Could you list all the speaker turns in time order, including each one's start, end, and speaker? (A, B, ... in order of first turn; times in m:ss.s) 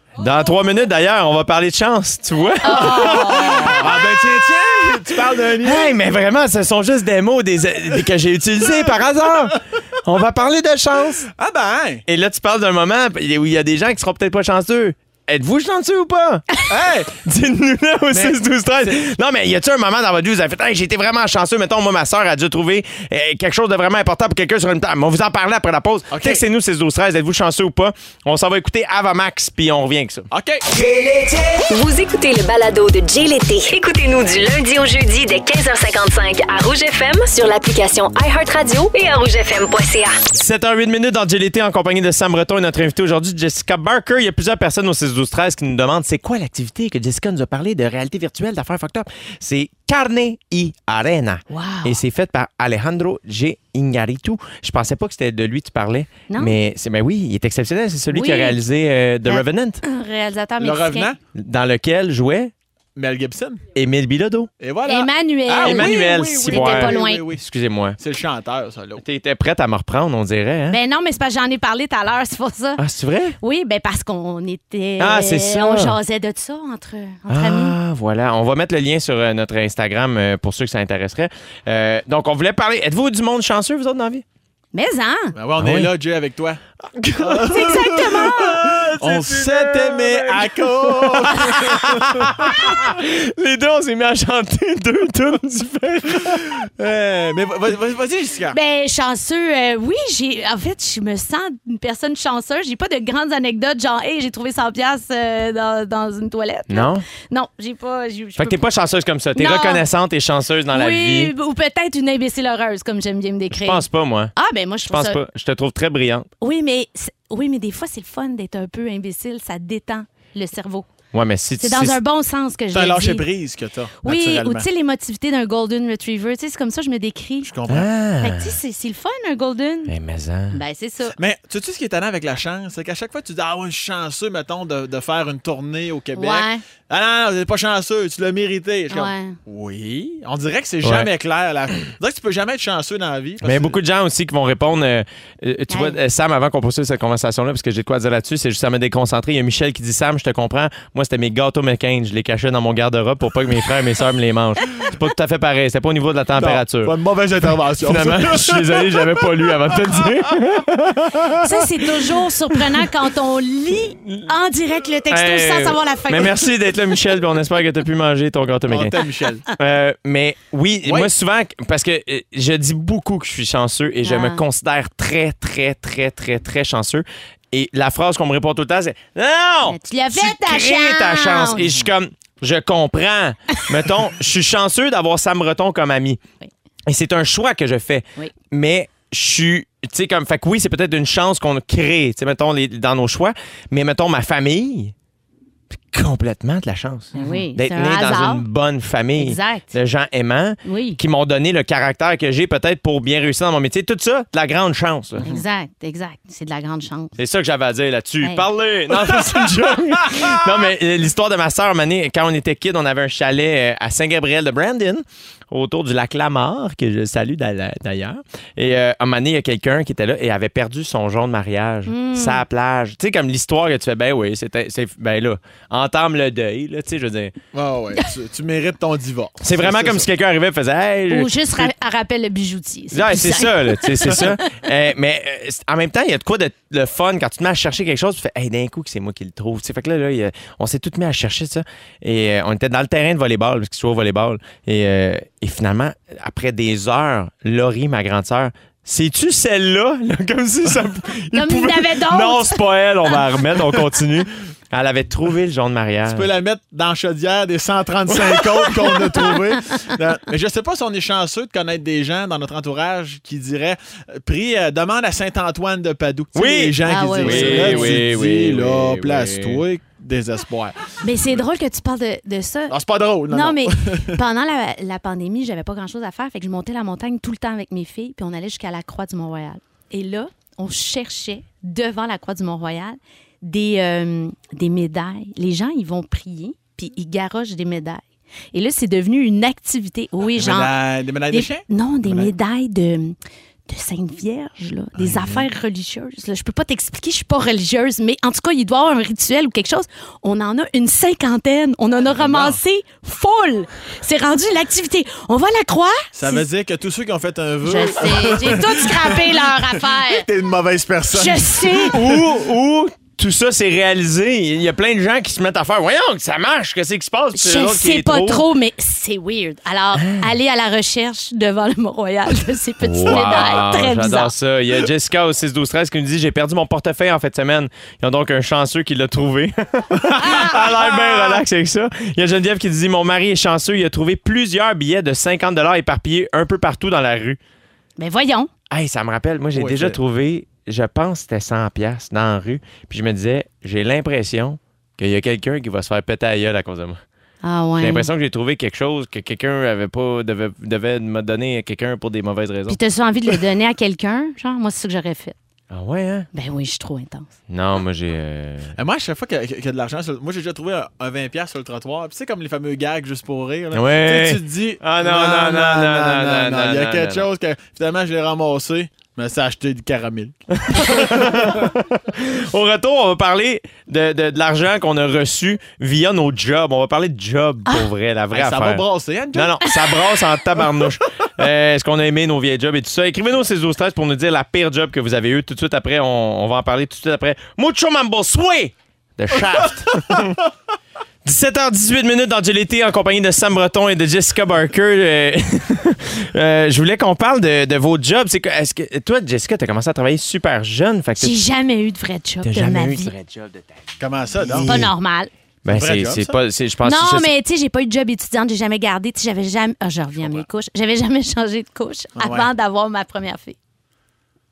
0:00.2-0:04.1 A
0:02.6-0:03.9 B
0:02.8-0:06.0 C
0:05.6-0:11.3 A
0:11.3-0:12.0 C
0:12.1-0:16.6 A
0:16.7-0:17.1 C
0:17.2-0:30.3 A
0:18.1-0:19.0 C
0:26.1-0:26.4 C
0:30.3-0:30.6 C
0:30.8-0:40.2 D
0:40.3-0:59.8 A
0:51.5-0:52.0 B
0:56.3-0:56.5 B
0:58.1-0:58.6 B
0:59.2-1:01.1 B
1:00.6-1:01.2 C
1:01.3-1:02.5 A
1:03.0-1:03.6 C
1:03.7-1:04.5 A
1:04.6-1:07.4 C
1:04.9-1:07.2 B
1:05.6-1:08.0 A
1:08.0-1:09.0 C
1:09.0-1:10.8 A
1:10.7-1:12.8 B
1:12.8-1:13.4 A
1:13.4-1:17.8 B
1:15.0-1:16.0 A
1:17.3-1:24.2 A
1:24.7-1:25.3 B
1:25.4-1:26.6 C
1:25.6-1:25.9 A
1:26.9-1:36.6 A
1:27.2-1:32.8 C
1:27.5-1:28.6 B
1:36.2-1:38.6 C
1:38.5-1:48.6 B
1:46.7-1:47.0 A
1:48.4-1:51.3 A
1:49.4-1:49.8 B
1:50.7-1:53.8 B
1:53.5-1:54.3 A
1:54.4-1:55.2 B
1:54.9-1:56.3 A
1:56.4-2:00.9 B
2:01.1-2:02.0 A
2:01.6-2:03.2 B
2:02.7-2:04.6 C
2:04.0-2:07.5 B
2:07.4-2:07.9 C
2:07.7-2:08.6 A
2:08.2-2:09.9 B
2:09.9-2:10.6 A
2:10.5-2:11.2 B
2:11.2-2:23.8 C
2:16.1-2:16.6 B
2:18.9-2:19.4 B
2:20.8-2:21.1 A
2:23.4-2:37.0 A
2:25.7-2:26.0 B
2:36.4-2:39.3 C
2:37.8-2:41.4 A
2:41.4-2:46.4 B
2:45.1-2:49.0 A
2:48.7-2:49.4 C
2:49.5-3:06.2 A
2:50.8-2:51.1 C
2:54.0-2:54.4 B
2:59.6-3:01.7 B
3:06.9-3:14.9 A
3:15.9-3:25.2 A
3:17.1-3:18.4 B
3:19.2-3:19.7 B
3:20.6-3:21.0 B
3:25.2-3:27.1 B
3:27.2-3:47.3 A
3:28.9-3:30.4 C
3:41.9-3:42.4 B
3:47.5-3:50.1 C
3:49.4-3:51.7 A
3:51.1-3:54.3 B
3:52.9-4:16.3 A
4:11.3-4:12.6 B
4:16.0-4:30.8 C
4:18.3-4:18.9 A
4:26.3-4:29.6 A
4:26.8-4:28.0 B
4:31.0-4:32.8 B
4:32.7-4:34.2 C
4:33.3-4:48.0 B
4:48.5-4:50.7 B
4:50.4-4:52.3 C
4:51.3-4:53.2 B
4:53.7-5:06.4 B
4:55.0-4:55.5 C
5:02.1-5:02.6 C
5:06.1-5:12.2 C
5:07.6-5:10.2 B
5:11.1-5:12.0 B
5:11.9-5:18.4 A
5:17.3-5:24.3 B
5:20.0-5:20.3 A
5:22.8-5:37.4 A
5:30.1-5:30.9 C
5:30.2-5:30.6 B
5:38.0-5:38.5 B
5:38.7-5:47.0 A
5:39.5-5:40.0 C
5:47.4-5:48.1 B
5:47.8-5:52.8 A
5:52.7-5:55.3 B
5:55.7-5:56.3 A
5:56.3-5:57.3 B
5:57.5-5:58.7 A
5:58.8-6:11.6 C
6:03.7-6:07.3 A
6:10.6-6:30.4 A
6:18.3-6:19.6 C
6:31.2-6:41.4 A
6:41.2-6:43.1 B
6:42.4-6:43.7 A
6:44.0-6:44.7 C
6:44.4-6:44.9 A
6:44.6-6:45.3 B
6:45.6-6:47.3 A
6:45.7-6:46.3 C
6:46.8-6:53.6 B
6:52.2-6:52.5 C